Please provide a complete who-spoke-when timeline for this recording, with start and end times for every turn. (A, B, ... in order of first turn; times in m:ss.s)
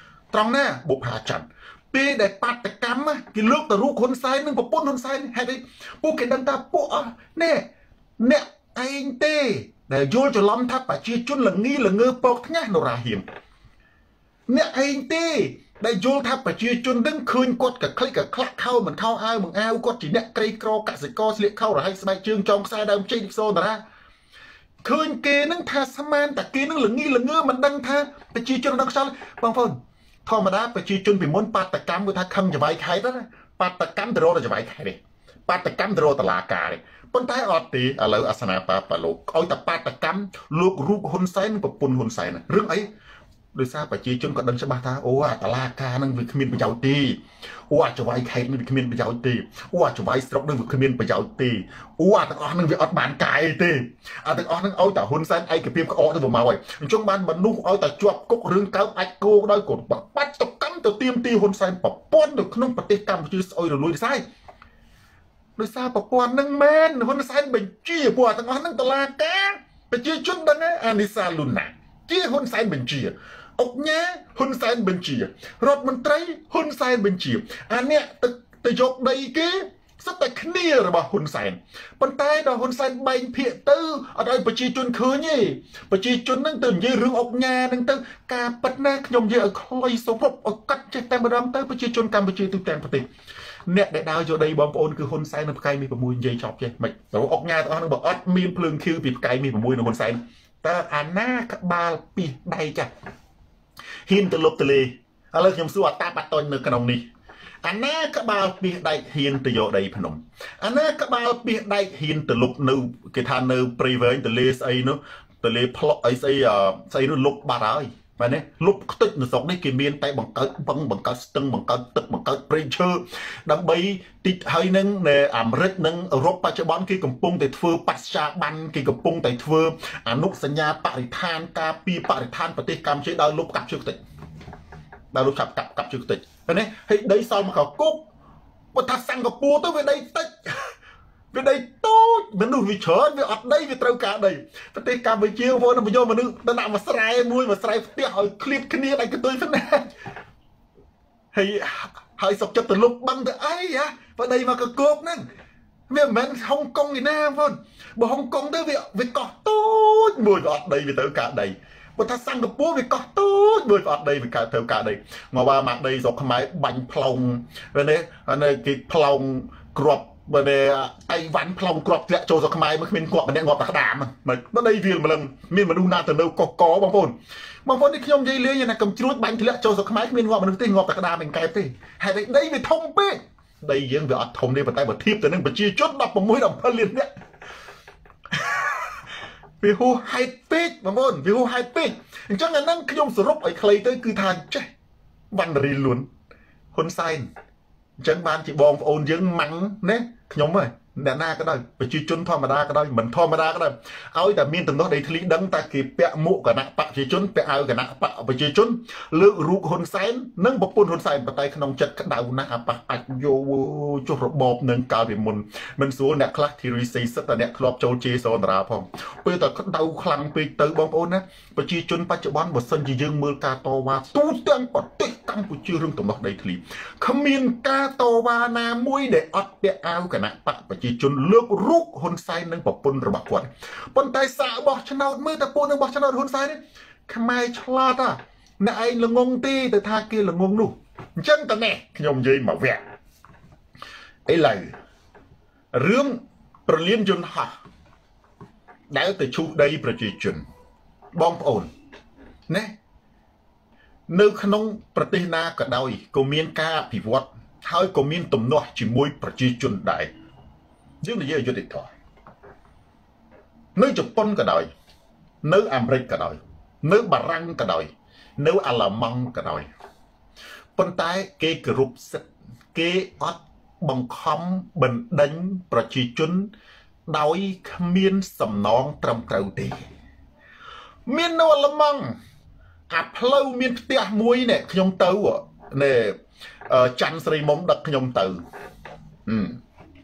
0:00.3-0:07.7 A
0:08.2-0:13.2 A
0:14.5-0:23.8 A
0:24.8-0:42.9 A
0:43.5-1:04.2 A
1:05.6-1:33.1 A
1:33.7-1:42.9 A
1:44.0-1:47.0 A
1:47.6-2:14.0 A
2:15.1-2:18.0 A
2:18.7-2:20.7 A
2:21.3-2:29.9 A
2:31.3-2:35.2 A
2:35.9-3:07.1 A
3:08.3-3:08.8 A
3:09.6-3:14.7 A
3:15.3-3:16.1 A
3:16.7-3:17.3 A
3:18.0-4:02.8 A
4:04.2-4:04.8 A
4:05.7-4:07.6 A
4:08.9-4:10.4 A
4:11.1-4:11.7 A
4:12.5-4:12.7 A
4:14.1-4:20.1 A
4:21.0-4:21.9 A
4:23.7-4:24.7 A
4:25.4-4:29.7 A
4:30.8-4:36.5 A
4:37.1-4:39.8 A
4:41.1-4:42.2 A
4:42.9-4:48.4 A
4:49.2-4:49.6 A